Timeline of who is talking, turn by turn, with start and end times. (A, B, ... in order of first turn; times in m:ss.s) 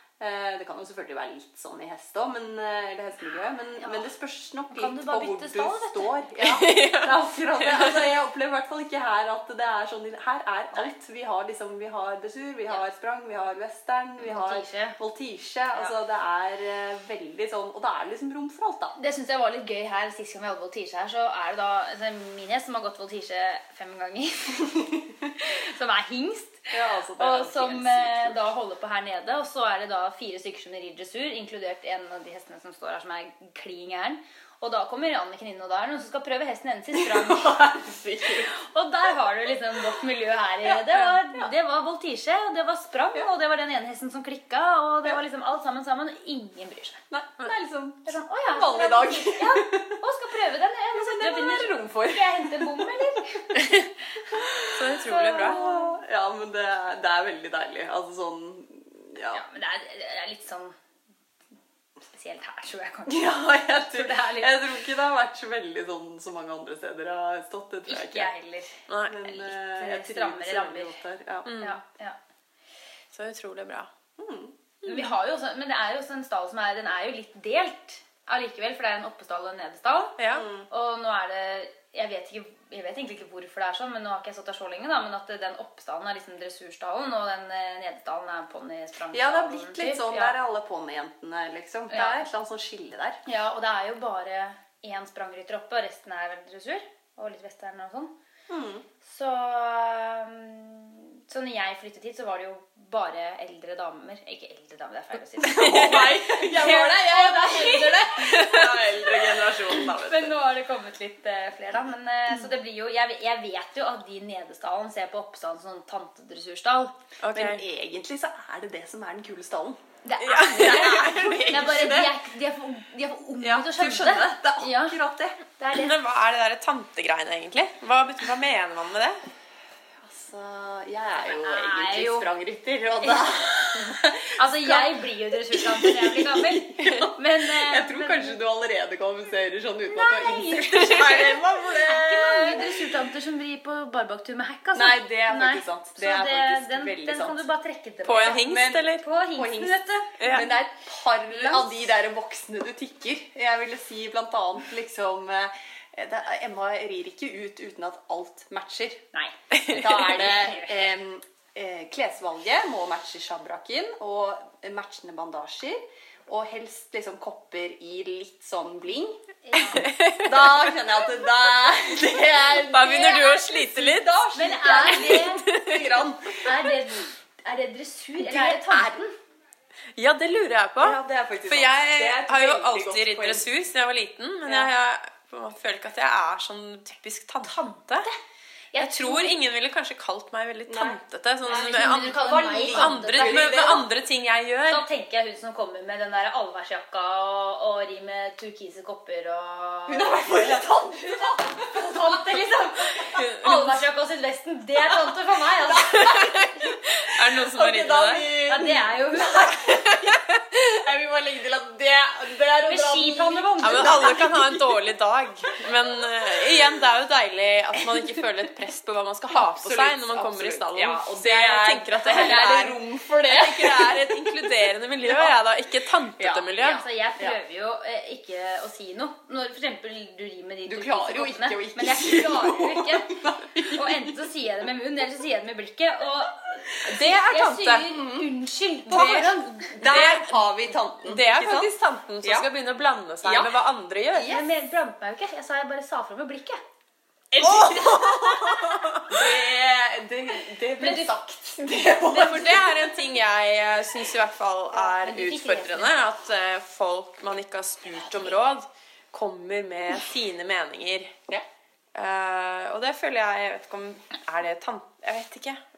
0:00.2-0:19.0 A
0:03.8-0:04.1 B
0:04.7-0:06.1 B
0:06.4-0:08.0 C
0:14.2-0:15.0 B
0:19.0-0:37.7 B
0:26.7-0:28.4 A
0:36.9-0:38.5 A
0:38.5-0:47.0 B
0:40.6-0:41.5 A
0:47.1-0:50.0 A
0:48.0-0:53.6 B
0:50.9-0:52.9 A
0:53.5-0:53.9 C
0:54.3-0:59.4 A
0:54.7-0:55.6 C
0:55.0-0:56.0 B
0:59.3-1:00.8 B
1:02.0-1:04.6 B
1:03.1-1:08.3 A
1:07.9-1:11.0 B
1:08.9-1:09.2 C
1:09.0-1:11.5 A
1:11.4-1:11.8 C
1:11.6-1:12.2 B
1:13.1-1:13.9 C
1:14.2-1:14.6 A
1:14.8-1:30.4 B
1:14.8-1:15.1 C
1:20.2-1:20.4 C
1:20.3-1:20.7 A
1:29.1-1:33.2 A
1:31.9-1:32.3 B
1:33.2-1:38.1 B
1:38.5-1:38.8 A
1:39.0-1:57.0 B
1:45.4-1:50.4 A
1:45.6-1:46.1 C
1:57.2-1:57.6 C
1:57.3-1:59.8 A
2:00.0-2:05.0 B
2:00.2-2:01.5 C
2:00.3-2:02.1 A
2:03.4-2:05.4 A
2:05.6-2:06.0 B
2:05.7-2:09.2 C
2:10.0-2:22.9 A
2:11.2-2:12.3 B
2:13.0-2:18.4 B
2:19.8-2:30.4 B
2:24.7-2:27.4 A
2:28.0-2:29.0 C
2:28.3-2:39.0 A
2:30.2-2:30.5 C
2:31.3-2:31.8 B
2:39.1-2:40.9 B
2:39.6-2:49.2 A
2:49.4-2:49.9 B
2:49.6-2:50.8 C
2:50.2-2:56.5 A
2:52.6-2:54.2 C
2:54.3-2:55.4 B
2:54.8-2:56.0 C
2:56.4-2:59.0 B
2:58.2-2:59.1 A
3:00.0-3:08.1 C
3:00.8-3:03.5 A
3:04.4-3:04.7 A
3:07.4-3:08.2 B
3:08.7-3:09.4 B
3:08.8-3:14.8 C
3:10.7-3:13.9 A
3:11.4-3:13.8 B
3:14.7-3:26.3 B
3:19.9-3:23.8 A
3:23.1-3:23.6 C
3:24.9-3:26.6 A
3:26.1-3:28.3 C
3:27.4-3:34.8 A
3:28.5-3:29.6 B
3:29.8-3:30.3 C
3:32.6-3:34.2 B
3:33.6-3:46.8 C
3:37.8-3:38.1 A
3:39.3-3:45.4 A
3:42.0-3:42.7 B
3:46.2-3:47.4 A
3:46.7-3:53.1 B
3:50.6-3:54.3 A
3:53.7-3:59.7 B
3:56.8-3:57.9 C
3:57.9-3:58.3 A
3:58.9-4:01.7 A
3:59.7-4:00.5 C
4:01.0-4:04.3 C
4:02.2-4:02.5 A
4:03.2-4:03.6 A
4:04.1-4:04.5 A
4:04.3-4:06.6 B
4:07.3-4:08.6 A
4:07.4-4:09.4 C
4:09.1-4:13.0 A
4:10.8-4:11.1 B
4:12.0-4:21.1 C
4:14.8-4:15.9 B
4:18.0-4:18.3 B
4:21.9-4:25.6 C